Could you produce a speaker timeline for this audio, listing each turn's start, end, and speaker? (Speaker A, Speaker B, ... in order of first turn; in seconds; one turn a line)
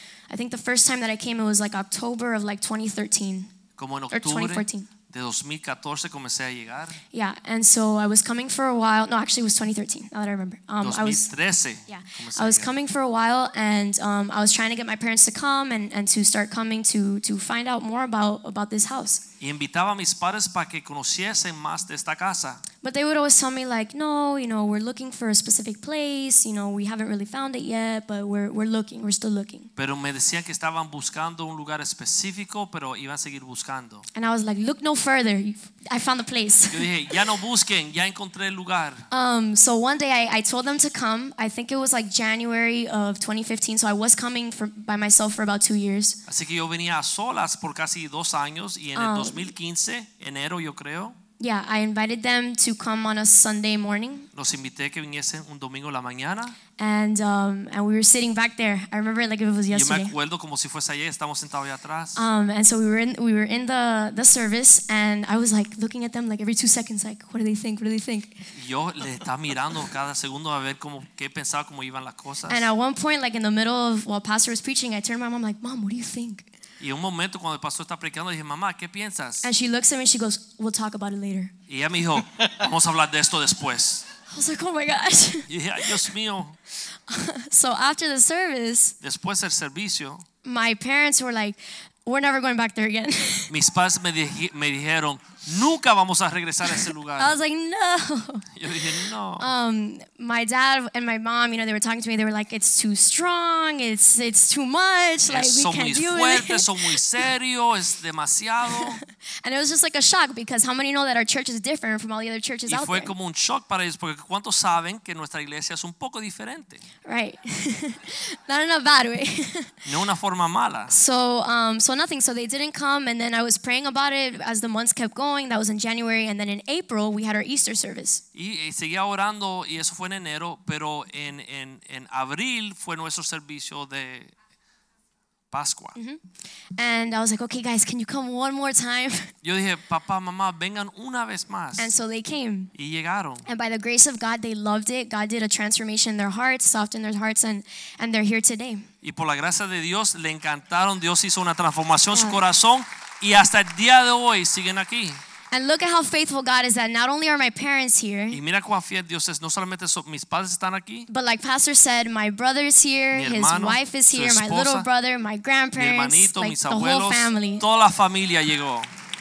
Speaker A: 0.3-3.5
Speaker B: 3.8-7.0
Speaker A: 4.1-4.9
Speaker A: 7.1-11.3
Speaker B: 10.8-12.7
Speaker A: 11.9-19.2
Speaker B: 19.4-22.6
Speaker A: 22.8-29.7
Speaker B: 29.8-34.1
Speaker A: 34.1-36.9
Speaker B: 36.7-39.1
Speaker A: 39.1-46.2
Speaker B: 46.3-51.1
Speaker A: 48.9-49.5
Speaker A: 51.4-54.3
Speaker B: 54.3-56.6
Speaker A: 56.8-60.1
Speaker B: 59.7-62.2
Speaker A: 62.1-68.5
Speaker B: 68.5-72.7
Speaker A: 72.5-76.5
Speaker B: 76.8-79.5
Speaker A: 79.4-81.5
Speaker B: 81.7-84.1
Speaker A: 84.3-86.1
Speaker B: 85.5-86.6
Speaker A: 86.8-89.0
Speaker B: 89.0-90.2
Speaker A: 90.4-93.5
Speaker B: 93.5-97.3
Speaker A: 97.2-98.5
Speaker B: 98.5-99.5
Speaker A: 99.4-107.0
Speaker B: 105.3-109.0
Speaker A: 108.7-113.1
Speaker B: 112.7-116.8
Speaker A: 117.0-119.7
Speaker B: 119.8-120.9
Speaker A: 120.9-128.2
Speaker B: 128.3-134.3
Speaker B: 135.5-135.9
Speaker A: 135.9-136.2
Speaker A: 136.8-139.3
Speaker B: 139.4-141.9
Speaker A: 141.8-142.7
Speaker B: 142.7-143.5
Speaker A: 143.4-148.8
Speaker B: 149.0-155.2
Speaker A: 152.1-152.4
Speaker A: 155.5-158.4
Speaker B: 158.3-161.1
Speaker A: 161.1-167.6
Speaker B: 163.1-164.9
Speaker B: 165.7-168.9